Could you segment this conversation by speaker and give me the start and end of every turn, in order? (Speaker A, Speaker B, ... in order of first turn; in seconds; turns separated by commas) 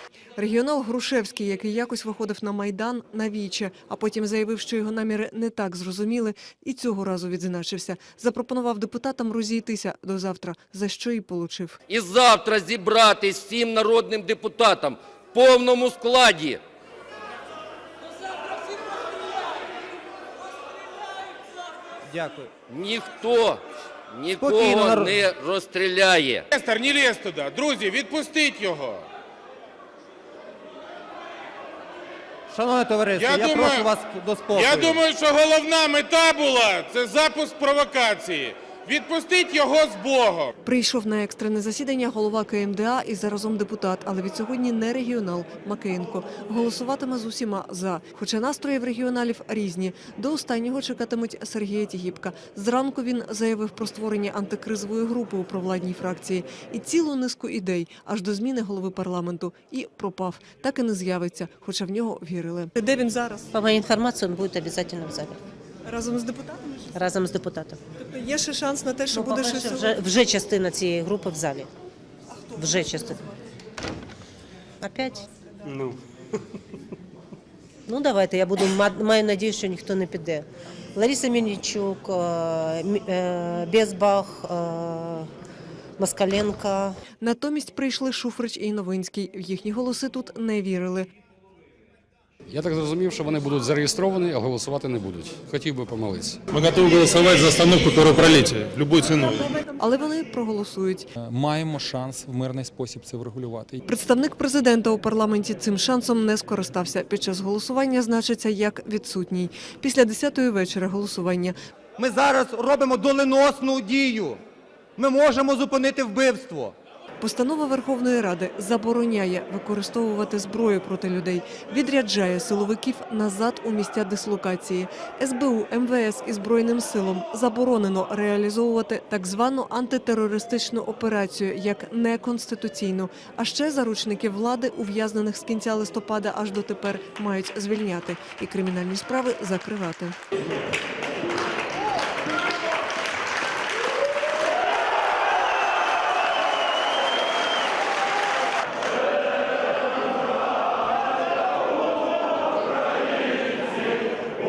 Speaker A: 0.4-11.8, Speaker B: 11.9-16.6, Speaker C: 22.1-22.5, Speaker B: 22.7-26.4, Speaker C: 24.4-25.2, Speaker D: 26.5-29.0, Speaker C: 32.5-35.0, Speaker D: 33.1-33.9, Speaker D: 34.5-40.5, Speaker A: 40.6-63.5, Speaker E: 63.5-65.4, Speaker A: 65.8-66.8, Speaker E: 66.9-67.8, Speaker A: 68.0-70.0, Speaker E: 69.1-71.7, Speaker E: 72.5-73.2, Speaker E: 74.8-75.2, Speaker E: 77.9-85.3, Speaker E: 86.0-87.0, Speaker A: 87.2-91.1, Speaker F: 92.5-96.4, Speaker G: 96.5-99.5, Speaker A: 99.8-101.1, Speaker H: 101.2-103.8, Speaker A: 103.8-111.5, Speaker C: 112.0-114.4, Speaker C: 115.0-116.7, Speaker A: 117.2-140.1